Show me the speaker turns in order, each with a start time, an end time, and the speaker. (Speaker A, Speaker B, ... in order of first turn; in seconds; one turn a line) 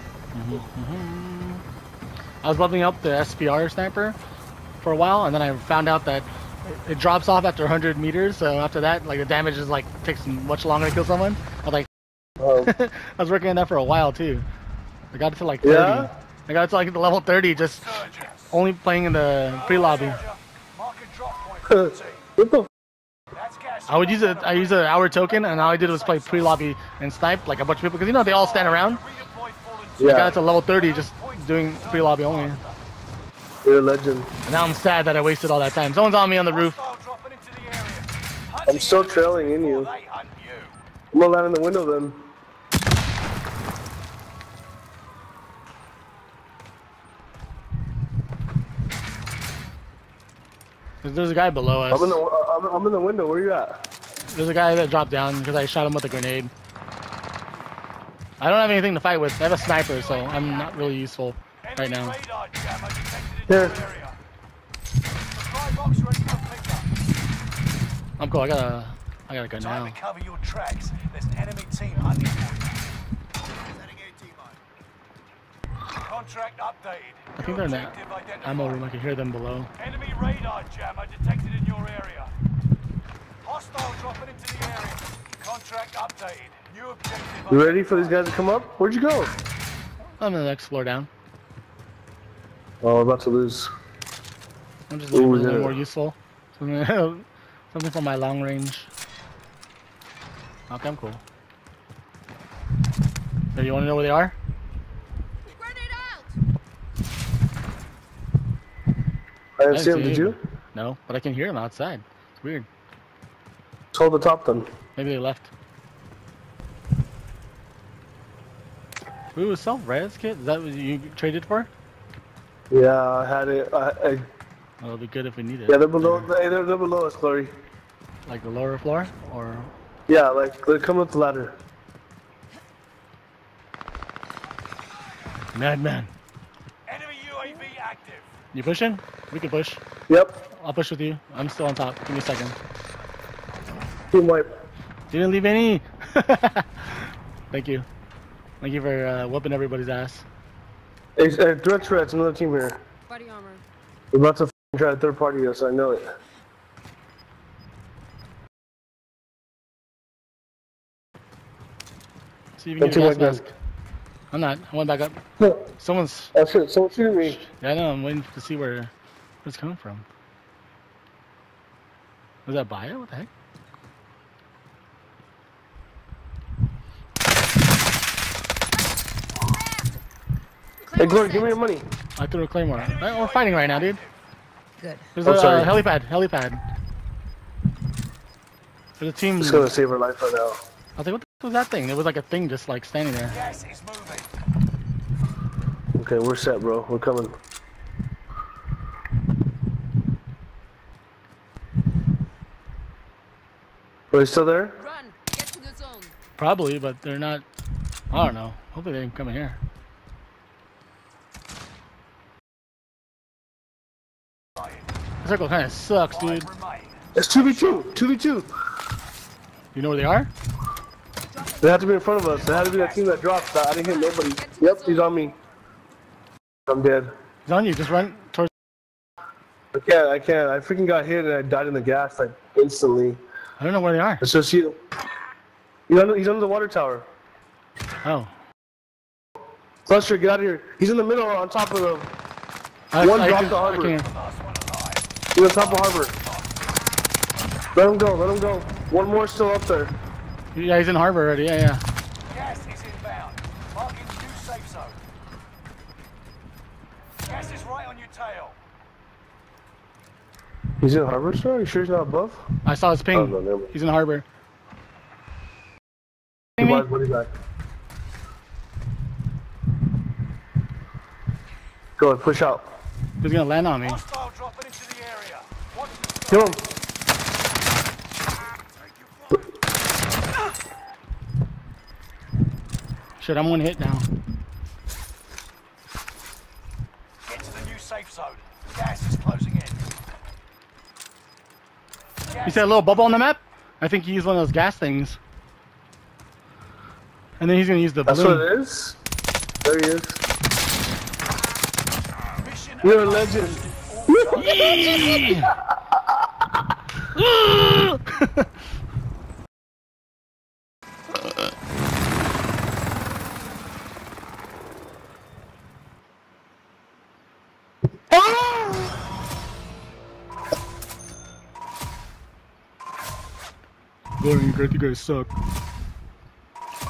Speaker A: 0.3-1.6
Speaker A: 2.4-4.2
Speaker A: 4.8-11.9
Speaker B: 12.4-12.7
Speaker A: 12.6-14.4
Speaker A: 15.1-20.2
Speaker B: 15.6-16.1
Speaker C: 17.9-18.5
Speaker C: 19.6-22.2
Speaker B: 21.7-22.7
Speaker C: 23.3-26.6
Speaker A: 23.9-29.0
Speaker C: 28.2-32.8
Speaker B: 30.0-30.4
Speaker A: 30.0-32.6
Speaker B: 33.6-34.3
Speaker A: 34.5-36.8
Speaker C: 36.5-40.8
Speaker B: 38.7-39.9
Speaker B: 41.1-42.3
Speaker A: 51.0-52.2
Speaker B: 51.9-53.8
Speaker A: 54.3-56.5
Speaker A: 58.4-62.2
Speaker C: 59.6-60.9
Speaker C: 61.6-64.2
Speaker B: 63.5-63.8
Speaker C: 65.3-66.9
Speaker A: 68.2-70.0
Speaker C: 69.6-72.8
Speaker C: 75.9-78.8
Speaker A: 77.3-79.7
Speaker C: 79.8-82.3
Speaker C: 83.4-88.1
Speaker B: 87.5-89.3
Speaker A: 90.2-91.1
Speaker B: 92.8-93.7
Speaker A: 94.9-98.9
Speaker B: 95.1-95.8
Speaker A: 100.7-101.2
Speaker A: 103.5-104.3
Speaker D: 105.5-106.4
Speaker B: 109.6-110.4
Speaker A: 109.7-112.7
Speaker B: 113.9-114.7
Speaker A: 115.0-115.5
Speaker A: 119.3-121.7
Speaker B: 122.7-124.2
Speaker A: 124.8-126.3
Speaker B: 125.7-127.5
Speaker A: 128.3-129.7
Speaker B: 130.1-131.6
Speaker A: 135.5-136.1
Speaker C: 136.9-138.3
Speaker A: 138.5-139.8
Speaker B: 140.1-140.4
Speaker A: 140.5-142.6
Speaker B: 144.1-144.5
Speaker A: 145.1-147.9
Speaker A: 148.6-150.2
Speaker B: 151.2-152.8
Speaker D: 153.1-153.6
Speaker B: 154.1-156.1
Speaker A: 162.6-163.4
Speaker B: 162.8-163.5
Speaker A: 164.3-166.3
Speaker B: 166.3-167.4
Speaker A: 167.2-168.9
Speaker A: 169.4-170.1
Speaker A: 172.5-173.3
Speaker D: 179.5-179.8
Speaker D: 180.8-181.5
Speaker B: 181.0-181.9
Speaker A: 182.2-184.0
Speaker C: 182.8-184.1
Speaker D: 184.8-185.1
Speaker A: 185.2-186.6
Speaker B: 185.2-185.8
Speaker A: 189.0-189.7
Speaker B: 189.4-190.6
Speaker A: 191.0-193.4
Speaker C: 193.4-194.3
Speaker B: 195.9-197.3
Speaker B: 204.1-204.8
Speaker D: 204.8-206.2
Speaker A: 206.4-207.4
Speaker A: 208.1-209.6
Speaker A: 215.2-216.5
Speaker C: 216.2-217.8
Speaker B: 217.2-218.5
Speaker A: 219.7-220.3
Speaker D: 221.4-221.7
Speaker B: 221.6-225.4
Speaker D: 223.7-225.1
Speaker B: 226.7-227.1
Speaker A: 227.5-228.5
Speaker B: 229.7-233.2
Speaker A: 233.6-234.2
Speaker B: 234.2-234.8
Speaker B: 235.9-237.1
Speaker A: 238.0-238.3
Speaker B: 239.9-242.1
Speaker A: 242.9-244.1
Speaker B: 243.0-244.0
Speaker C: 244.1-245.6
Speaker B: 245.3-246.2
Speaker C: 246.2-246.4
Speaker B: 247.7-249.9
Speaker A: 250.5-251.8
Speaker C: 252.3-255.0
Speaker C: 257.2-258.6
Speaker B: 260.8-262.4
Speaker A: 262.6-264.2
Speaker B: 263.1-263.7
Speaker A: 266.6-266.9
Speaker B: 266.6-267.3
Speaker B: 272.0-272.7
Speaker A: 273.2-274.0
Speaker C: 273.9-276.6
Speaker B: 276.3-276.6
Speaker A: 283.2-284.1
Speaker C: 287.2-289.8
Speaker A: 292.4-295.2
Speaker A: 297.4-298.5
Speaker B: 298.1-299.0
Speaker B: 299.6-300.2
Speaker C: 302.4-304.8
Speaker B: 302.8-304.6
Speaker A: 304.2-305.6
Speaker A: 307.1-308.5
Speaker A: 324.2-325.3